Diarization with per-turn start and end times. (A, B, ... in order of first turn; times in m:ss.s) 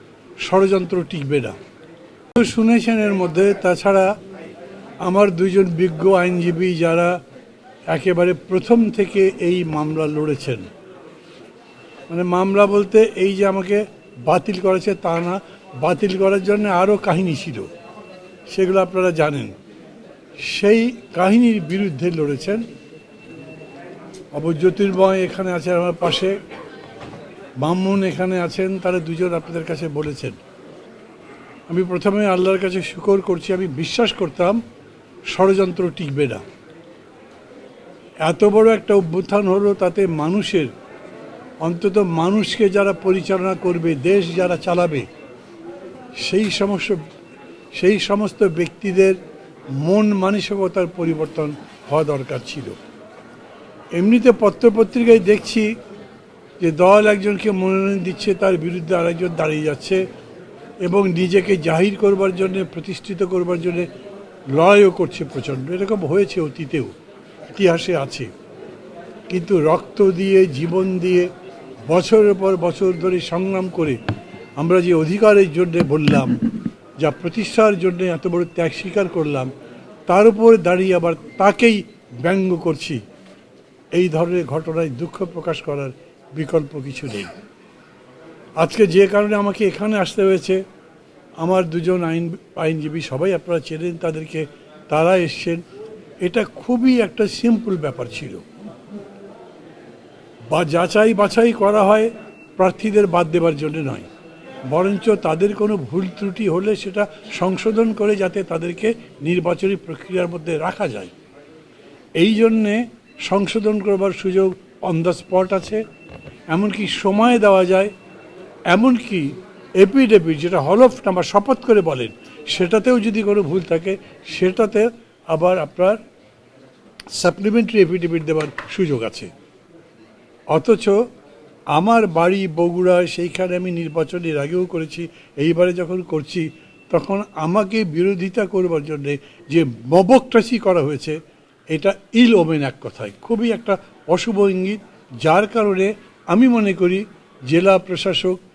0:00.4-0:01.6 A
0:02.4-0:04.1 A
0:05.0-0:07.2 A
0:07.9-0:10.7 A
0:12.1-0:17.7 A
0:18.5-0:19.5 A
0:20.4-0:22.6 A
0:24.3-0:26.4 A
0:27.6-0:30.4 A
0:31.7-0:34.6 A
0:35.3-0:36.4 A
0:38.2-0:40.7 A
0:41.6-0:45.1 A
0:46.2-0:47.0 A
0:47.7-0:49.2 A
0:49.8-0:52.8 A
0:54.0-0:55.7 A
0:56.6-1:00.0 A
1:00.8-1:03.9 A
1:04.5-1:06.9 A
1:07.5-1:08.3 A
1:09.3-1:11.3 A
1:11.9-1:14.0 A
1:14.6-1:16.4 A
1:17.0-1:19.5 A
1:20.1-1:23.0 A
1:23.9-1:27.3 A
1:28.6-1:30.6 A
1:31.4-1:35.6 A
1:36.2-1:38.4 A
1:40.5-1:44.1 A
1:44.7-1:51.1 A
1:52.2-1:55.8 A
1:56.5-1:57.9 A
1:58.7-2:06.0 A
2:07.1-2:09.3 A
2:10.5-2:11.0 A
2:11.7-2:21.2 A
2:21.7-2:28.4 A